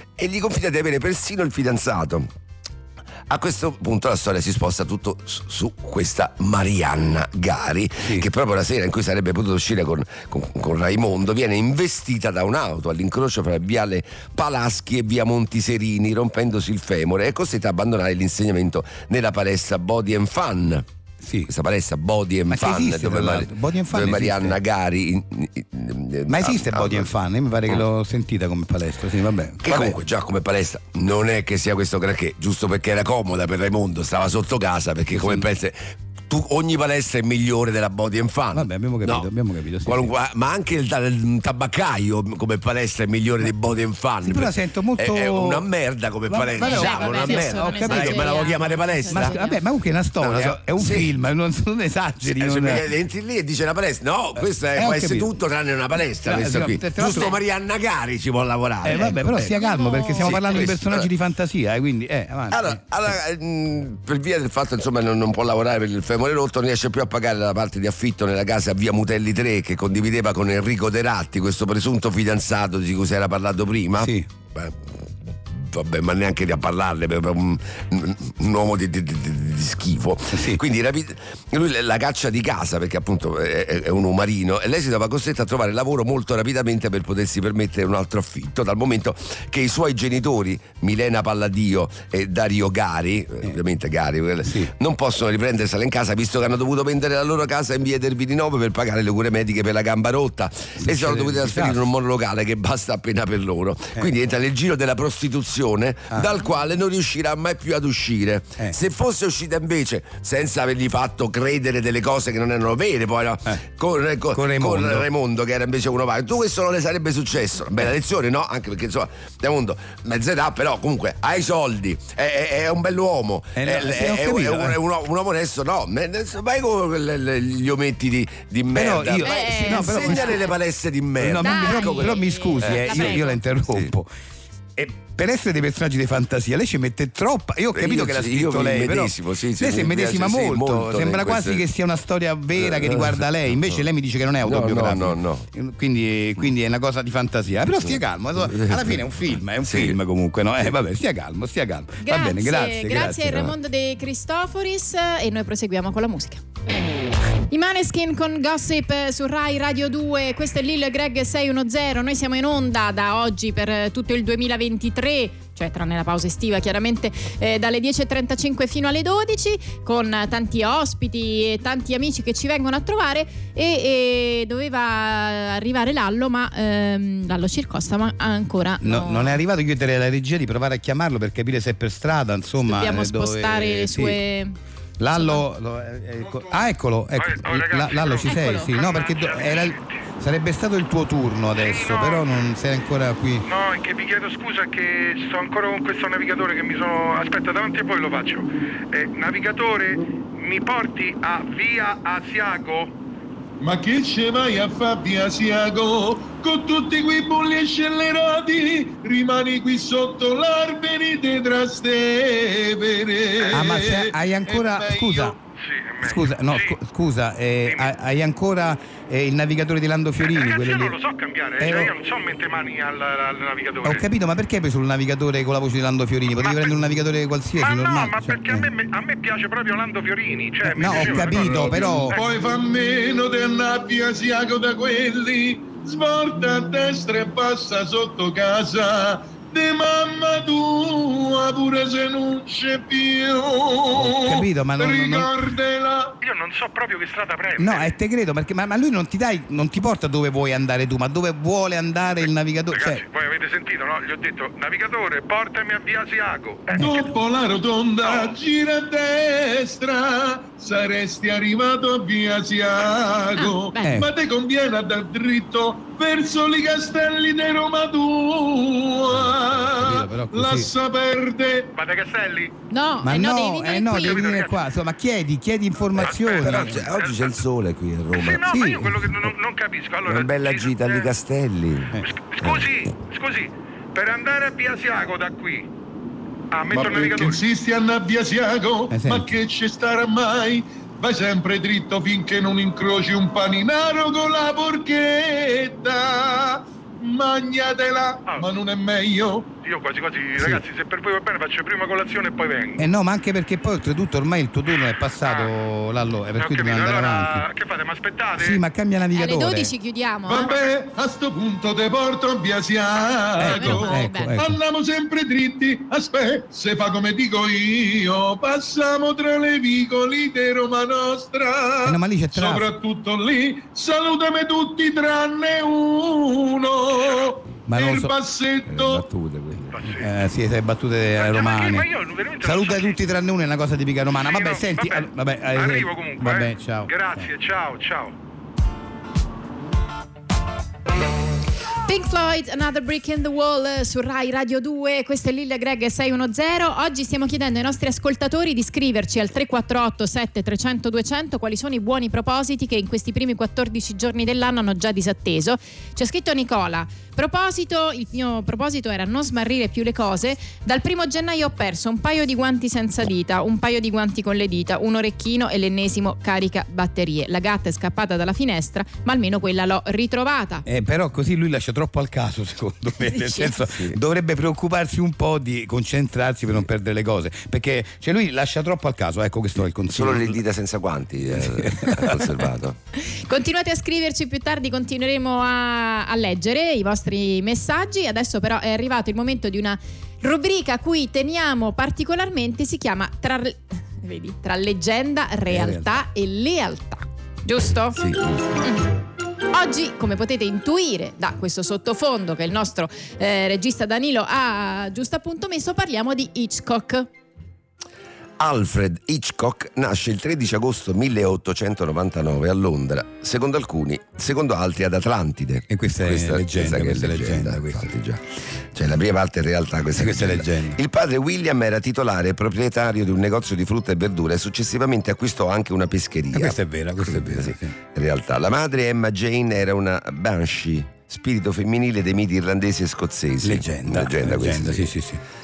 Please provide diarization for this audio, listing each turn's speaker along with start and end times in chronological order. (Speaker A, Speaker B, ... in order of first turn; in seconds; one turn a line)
Speaker A: 0.2-2.3
Speaker A: 3.3-20.8
Speaker B: 8.0-8.3
Speaker B: 21.2-21.5
Speaker A: 21.5-27.1
Speaker B: 22.5-24.6
Speaker B: 26.3-29.9
Speaker A: 29.6-39.3
Speaker B: 35.1-35.5
Speaker B: 38.5-40.1
Speaker A: 39.8-49.4
Speaker B: 44.2-45.6
Speaker B: 46.3-52.9
Speaker C: 46.6-49.6
Speaker A: 50.2-51.1
Speaker A: 52.3-59.6
Speaker B: 54.4-55.3
Speaker B: 56.2-57.3
Speaker B: 58.8-63.1
Speaker C: 59.5-60.6
Speaker A: 60.2-61.1
Speaker A: 62.5-74.9
Speaker B: 74.0-74.3
Speaker A: 75.5-133.9
Speaker B: 80.3-80.6
Speaker B: 94.4-94.7
Speaker B: 100.8-101.9
Speaker B: 114.3-115.1
Speaker B: 123.5-124.8
Speaker B: 128.7-130.5
Speaker C: 129.2-130.5
Speaker B: 131.2-134.1
Speaker C: 131.4-133.4
Speaker B: 134.8-153.6
Speaker A: 137.7-141.6
Speaker A: 142.6-143.8
Speaker A: 144.4-145.5
Speaker A: 147.7-149.9
Speaker C: 152.0-156.4
Speaker C: 157.5-179.4
Speaker B: 178.8-184.2
Speaker C: 182.6-184.6
Speaker B: 185.0-193.4
Speaker C: 185.1-185.4
Speaker D: 186.3-186.6
Speaker E: 187.2-189.9
Speaker C: 188.2-188.7
Speaker E: 191.6-192.2
Speaker E: 193.4-202.9
Speaker D: 203.6-215.4
Speaker B: 213.5-215.3
Speaker E: 215.6-216.8
Speaker B: 216.0-221.0
Speaker E: 217.7-217.9
Speaker E: 220.2-224.0
Speaker B: 221.6-221.9
Speaker B: 223.8-228.7
Speaker E: 226.4-226.8
Speaker E: 227.6-232.3
Speaker B: 230.6-232.2
Speaker D: 230.8-246.2
Speaker B: 243.9-245.3
Speaker E: 246.2-247.9
Speaker B: 247.6-253.0
Speaker E: 252.7-257.0
Speaker D: 256.8-271.8
Speaker E: 258.0-258.3
Speaker C: 263.4-263.9
Speaker B: 263.8-264.1
Speaker B: 269.1-270.7
Speaker E: 271.7-272.5
Speaker C: 272.7-274.4
Speaker B: 273.0-276.9
Speaker E: 273.8-274.6
Speaker E: 275.9-277.4
Speaker A: 276.0-278.5
Speaker E: 278.1-281.1
Speaker B: 278.4-279.3
Speaker A: 280.0-282.5
Speaker E: 282.0-285.7
Speaker E: 286.5-287.4
Speaker D: 286.7-299.5
Speaker B: 288.9-289.3
Speaker E: 299.6-302.8
Speaker B: 300.4-300.6
Speaker B: 302.8-307.5
Speaker E: 305.2-305.5
Speaker E: 306.4-308.6
Speaker B: 308.4-309.7
Speaker C: 309.1-310.5
Speaker D: 310.2-329.1
Speaker B: 313.4-314.6
Speaker C: 313.4-314.4
Speaker B: 321.8-322.7
Speaker B: 327.7-328.1
Speaker A: 328.7-329.8
Speaker E: 329.7-330.1
Speaker B: 329.8-331.9
Speaker E: 331.1-333.0
Speaker B: 332.4-337.3
Speaker E: 334.2-338.1
Speaker C: 341.9-370.6
Speaker B: 370.6-380.4
Speaker C: 373.1-373.5
Speaker A: 379.9-382.8
Speaker B: 381.2-382.2
Speaker C: 382.9-398.0
Speaker B: 395.5-396.0
Speaker A: 397.9-398.4
Speaker C: 399.5-407.1
Speaker A: 408.4-418.2
Speaker B: 415.7-417.9
Speaker A: 418.7-434.9
Speaker B: 419.9-420.8
Speaker B: 426.3-427.7
Speaker B: 433.4-435.2